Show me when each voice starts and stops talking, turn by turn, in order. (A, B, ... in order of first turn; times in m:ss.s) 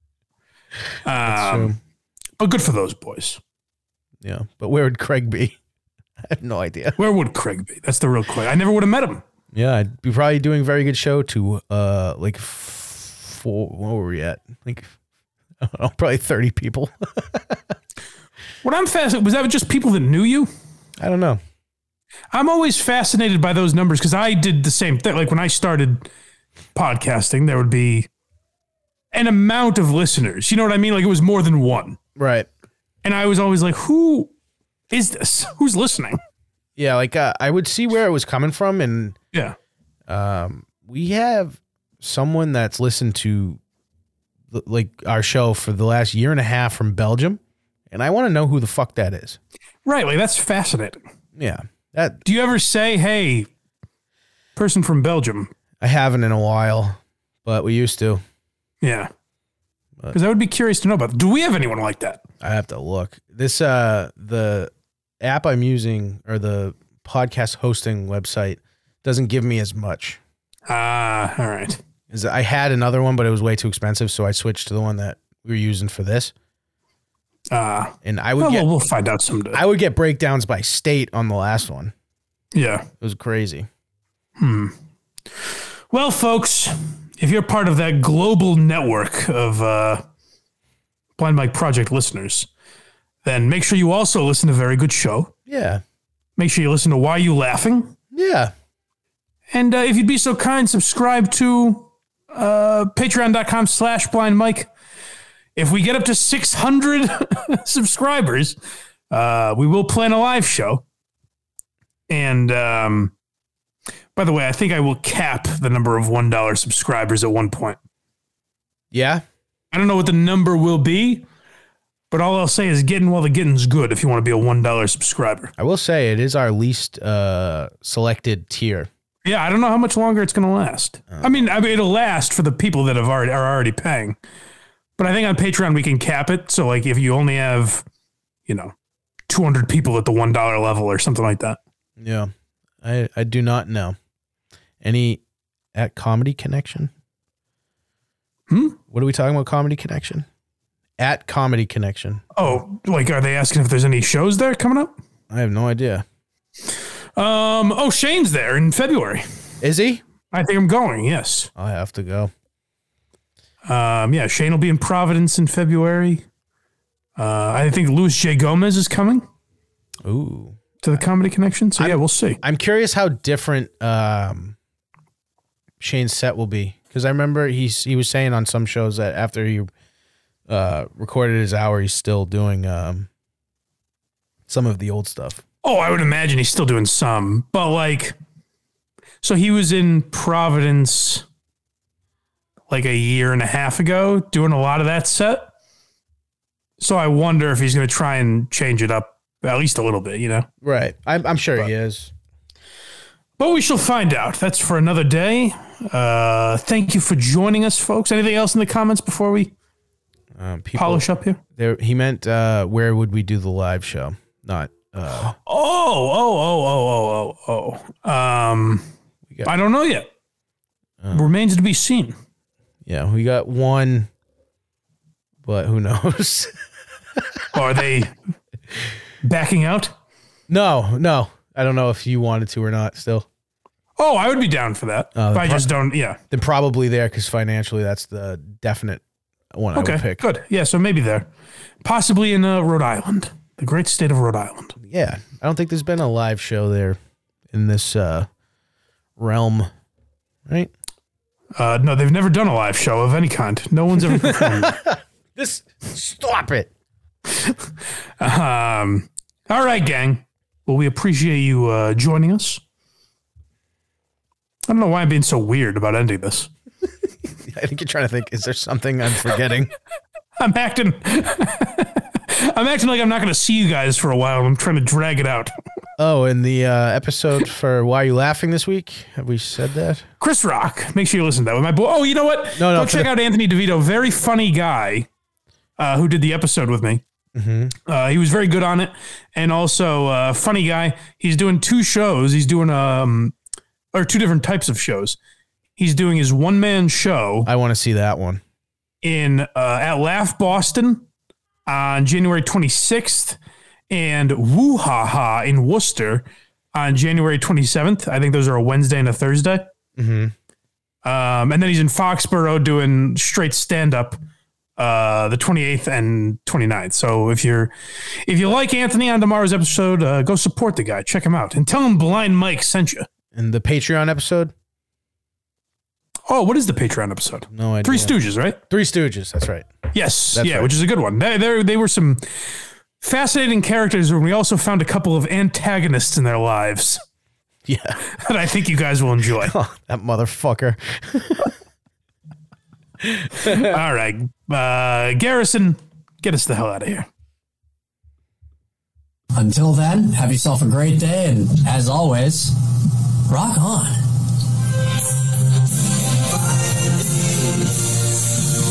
0:01.0-0:01.7 A
0:01.2-0:01.8 B
0:02.4-0:03.4 A
0:04.2-0:05.6 B
0:06.2-0:07.0 B
0:07.0-0:09.2 A
0:09.5-0:14.9 B
0:15.6-0:17.6 B
0:18.6-0:20.5 A
0:21.0-0:21.4 B
0:22.3-0:26.1 A
0:26.7-0:28.1 A
0:29.1-0:32.0 A
0:32.2-0:32.5 B
0:33.0-0:34.3 A
0:34.9-0:36.2 A
0:36.8-0:39.2 B
0:40.1-0:43.6 B
0:44.5-0:47.4 B
0:47.9-0:49.4 B
0:49.8-0:51.0 A
0:51.4-0:52.2 B
0:52.2-0:53.5 A
0:54.6-0:55.5 A
0:55.8-0:58.2 B
0:58.8-0:59.1 A
1:00.1-1:02.2 A
1:02.4-1:10.2 B
1:10.7-1:11.8 A
1:12.1-1:16.3 B
1:17.5-1:19.6 A
1:18.0-1:18.7 B
1:19.5-1:21.9 B
1:22.5-1:22.9 A
1:23.0-1:23.7 B
1:24.4-1:24.7 A
1:25.9-1:30.0 A
1:31.2-1:32.5 A
1:33.2-1:35.3 A
1:35.5-1:35.8 B
1:36.4-1:37.9 A
1:38.1-1:38.5 B
1:39.5-1:44.7 A
1:45.6-1:48.6 A
1:49.1-1:50.8 A
1:52.1-1:53.1 A
1:54.2-1:57.8 A
1:58.9-1:59.2 B
1:59.7-2:01.2 A
2:02.1-2:05.5 A
2:05.6-2:08.9 B
2:09.2-2:14.2 A
2:15.0-2:17.8 A
2:18.5-2:18.7 A
2:19.3-2:21.6 A
2:22.0-2:22.3 B
2:22.8-2:24.0 B
2:24.8-2:25.2 B
2:25.7-2:26.9 B
2:28.5-2:28.8 A
2:28.9-2:30.2 B
2:31.0-2:32.2 B
2:32.4-2:34.9 A
2:35.3-2:36.0 B
2:37.2-2:39.2 A
2:39.6-2:40.0 B
2:40.3-2:41.5 A
2:41.6-2:42.3 B
2:43.6-2:46.2 A
2:47.2-2:49.2 A
2:50.0-2:51.0 B
2:50.8-2:52.4 A
2:51.8-2:54.5 B
2:55.8-2:59.7 B
3:00.5-3:03.1 B
3:04.5-3:05.4 B
3:05.6-3:08.1 A
3:09.2-3:11.2 A
3:12.7-3:15.5 A
3:16.8-3:20.5 A
3:20.6-3:22.1 B
3:23.4-3:29.5 A
3:30.4-3:31.0 B
3:30.8-3:31.4 A
3:31.6-3:35.3 B
3:35.4-3:38.8 A
3:39.4-3:40.1 A
3:41.0-3:41.3 B
3:41.1-3:42.2 A
3:42.8-3:44.1 B
3:45.4-3:46.5 B
3:47.5-3:48.1 A
3:49.2-3:49.9 A
3:50.5-3:53.2 B
3:54.0-3:56.2 A
3:55.2-3:55.7 B
3:56.3-3:59.0 B
3:59.5-4:00.2 B
3:59.7-4:01.3 A
4:01.8-4:04.7 A
4:04.8-4:07.0 B
4:07.5-4:08.3 B
4:09.2-4:09.7 B
4:11.6-4:14.8 A
4:14.1-4:16.7 B
4:18.2-4:22.6 A
4:24.7-4:26.5 A
4:27.5-4:29.7 B
4:30.4-4:35.5 A
4:36.0-4:40.0 B
4:40.2-4:45.1 A
4:42.6-4:43.1 B
4:45.8-4:47.0 A
4:47.3-4:47.7 B
4:47.9-4:53.3 A
4:53.9-4:55.2 A
4:55.8-4:57.5 A
4:57.4-4:58.4 B
4:59.0-5:01.0 A
5:01.7-5:03.4 A
5:03.9-5:09.7 A
5:10.0-5:10.3 B
5:11.0-5:14.2 A
5:14.8-5:17.7 A
5:18.2-5:23.1 A
5:23.3-5:24.5 B
5:26.3-5:28.6 A
5:27.5-5:28.1 B
5:28.7-5:29.7 B
5:29.9-5:32.2 A
5:30.3-5:30.7 B
5:33.0-5:37.0 A
5:37.7-5:38.0 B
5:38.2-5:39.5 A
5:39.4-5:41.5 B
5:43.1-5:43.7 B
5:43.4-5:47.1 A
5:49.3-5:52.6 C
5:53.3-5:54.0 C